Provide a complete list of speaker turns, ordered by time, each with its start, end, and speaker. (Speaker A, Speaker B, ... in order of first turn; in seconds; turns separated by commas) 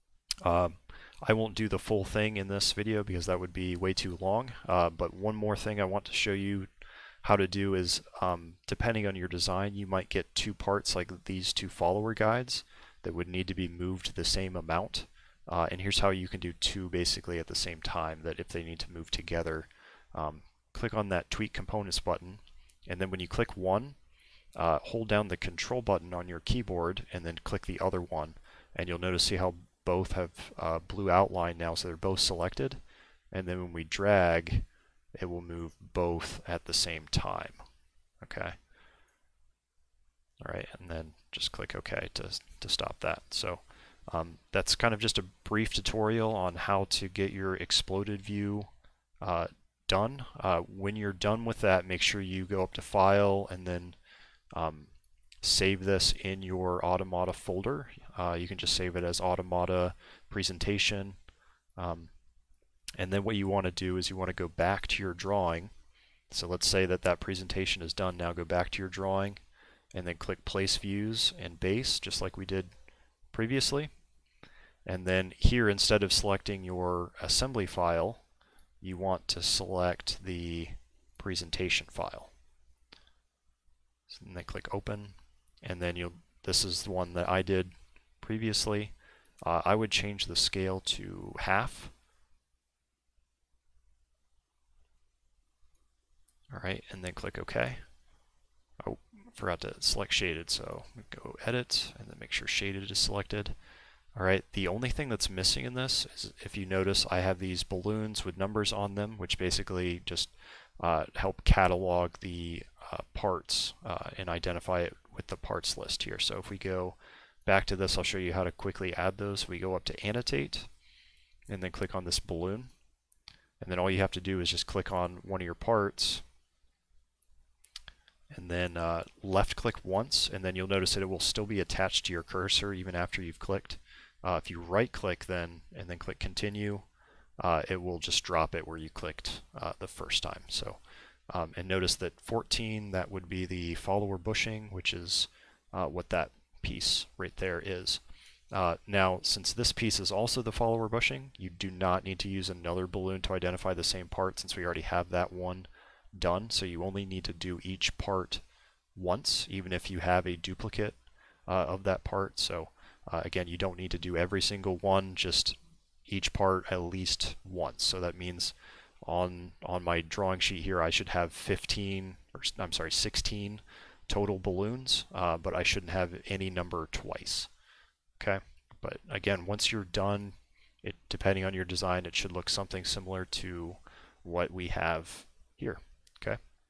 Speaker A: 0.4-6.7, Speaker A: 7.2-23.9, Speaker A: 24.6-32.8, Speaker A: 33.3-34.6, Speaker A: 35.2-37.6, Speaker A: 38.2-38.5, Speaker A: 40.4-48.7, Speaker A: 49.2-54.0, Speaker A: 54.5-61.2, Speaker A: 61.8-62.1, Speaker A: 63.0-65.7, Speaker A: 66.3-69.4, Speaker A: 69.9-72.7, Speaker A: 73.3-73.9, Speaker A: 74.8-78.2, Speaker A: 78.8-82.3, Speaker A: 84.1-91.9, Speaker A: 96.5-97.8, Speaker A: 98.8-103.5, Speaker A: 104.1-120.7, Speaker A: 121.5-122.7, Speaker A: 123.6-126.2, Speaker A: 128.3-136.8, Speaker A: 137.4-140.8, Speaker A: 141.3-148.0, Speaker A: 148.5-158.4, Speaker A: 158.9-177.5, Speaker A: 178.2-186.4